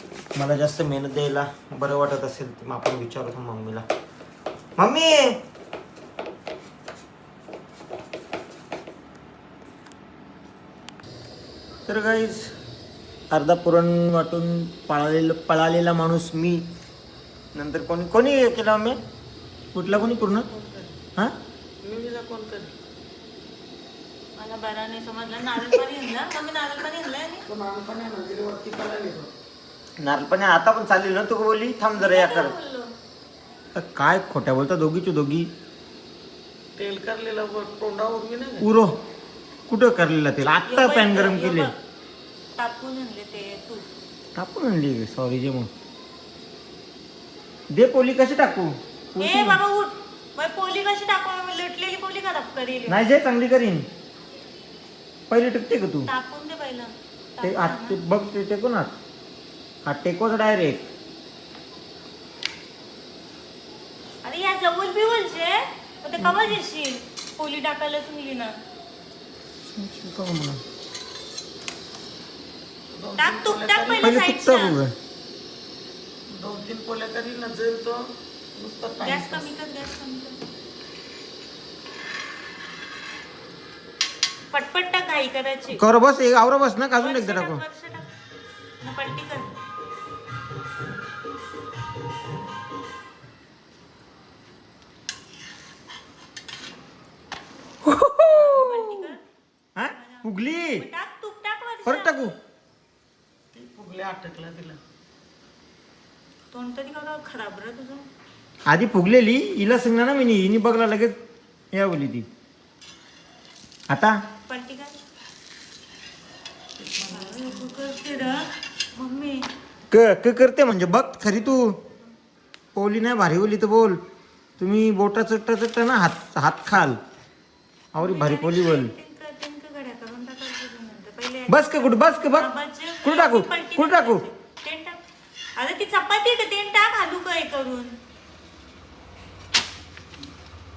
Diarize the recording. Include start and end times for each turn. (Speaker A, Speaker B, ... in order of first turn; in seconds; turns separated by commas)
Speaker A: 0.3-3.8, Speaker A: 4.8-5.4, Speaker A: 11.9-12.5, Speaker A: 13.3-16.6, Speaker A: 17.5-19.0, Speaker A: 19.7-20.5, Speaker B: 20.0-20.9, Speaker B: 21.8-22.7, Speaker C: 24.4-27.4, Speaker B: 27.5-29.3, Speaker A: 30.0-32.5, Speaker C: 31.9-32.9, Speaker A: 33.7-35.5, Speaker B: 36.8-38.6, Speaker A: 38.6-39.0, Speaker A: 39.7-41.7, Speaker C: 40.6-41.8, Speaker C: 42.6-43.9, Speaker A: 44.4-45.7, Speaker A: 47.7-49.6, Speaker C: 49.2-53.0, Speaker A: 52.9-53.9, Speaker A: 55.3-56.1, Speaker C: 56.1-58.0, Speaker A: 57.4-58.9, Speaker A: 59.9-60.9, Speaker C: 64.2-68.5, Speaker A: 66.2-66.5, Speaker A: 69.7-70.6, Speaker B: 72.9-74.1, Speaker C: 73.2-74.8, Speaker A: 74.0-74.9, Speaker B: 76.3-79.5, Speaker C: 79.0-80.4, Speaker C: 84.5-85.8, Speaker A: 85.7-87.6, Speaker C: 87.0-88.1, Speaker C: 88.8-89.5, Speaker A: 97.8-98.7, Speaker C: 98.2-99.2, Speaker A: 99.8-100.8, Speaker C: 99.9-102.3, Speaker A: 101.8-102.3, Speaker B: 103.5-104.8, Speaker C: 106.5-108.1, Speaker A: 108.7-111.2, Speaker A: 111.7-112.3, Speaker A: 113.9-114.2, Speaker C: 114.5-115.0, Speaker B: 116.8-118.1, Speaker C: 117.0-119.5, Speaker A: 119.9-121.8, Speaker A: 122.7-124.0, Speaker A: 124.6-127.0, Speaker A: 127.9-128.9, Speaker C: 128.0-135.0, Speaker A: 131.5-132.5, Speaker A: 133.0-134.2, Speaker C: 135.6-137.9